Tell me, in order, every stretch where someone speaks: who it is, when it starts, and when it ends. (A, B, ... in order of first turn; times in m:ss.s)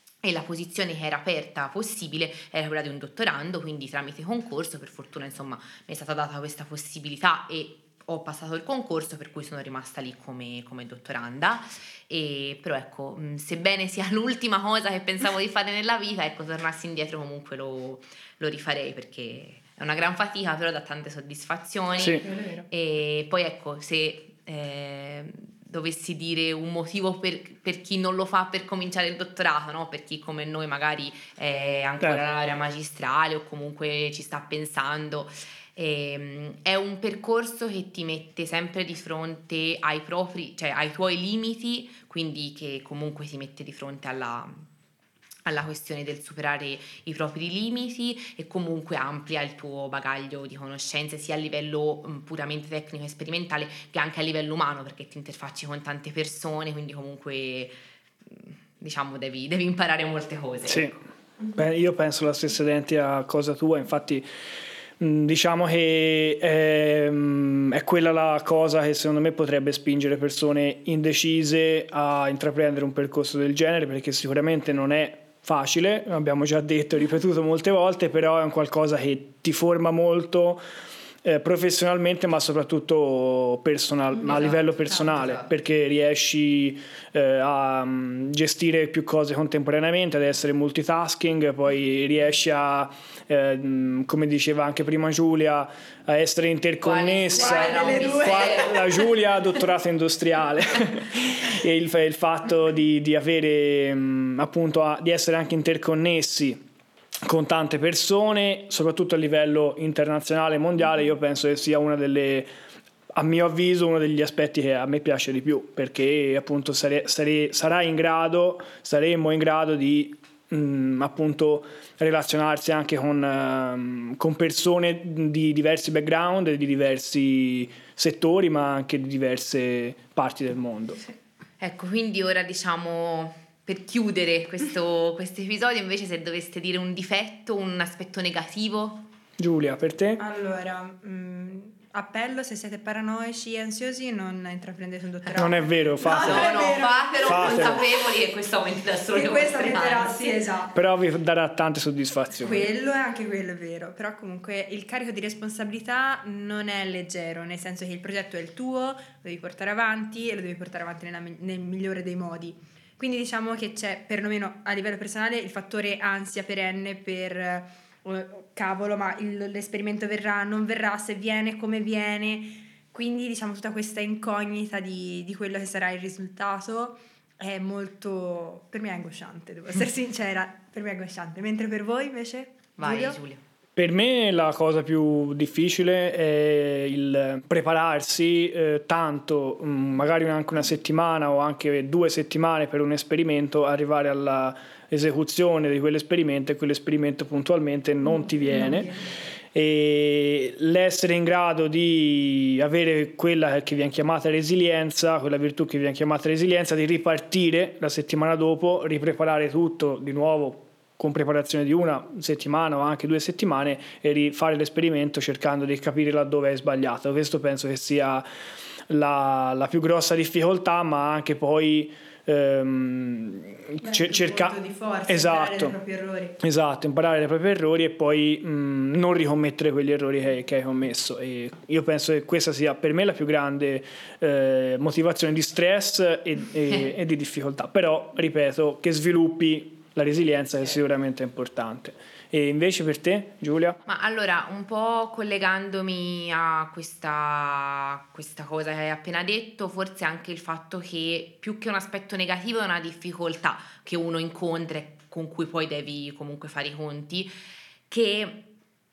0:00.2-0:44.6 A
0:22.0-0:22.2 B
0:22.2-0:22.7 C
0:45.5-0:57.8 A
0:58.3-1:00.9 A
1:00.7-1:01.0 B
1:01.5-1:04.2 B
1:05.0-1:20.6 B
1:21.2-1:46.6 B
1:24.2-1:25.5 A
1:36.8-1:39.0 A
1:37.3-1:38.7 C
1:47.3-1:52.5 B
1:53.2-2:11.0 B
2:11.6-2:19.1 A
2:19.4-2:20.2 B
2:20.2-2:28.1 C
2:25.3-2:26.5 B
2:26.2-2:30.2 A
2:27.2-2:27.8 B
2:29.1-2:30.7 C
2:30.7-2:32.7 B
2:32.4-3:03.2 C
3:02.8-3:03.4 A
3:03.8-3:18.9 B
3:18.5-3:18.9 C
3:19.5-3:38.2 B
3:38.9-3:44.6 B
3:43.8-3:46.4 C
3:45.1-3:45.8 B
3:46.4-4:03.8 B
4:03.9-4:17.3 A
4:17.9-4:18.5 A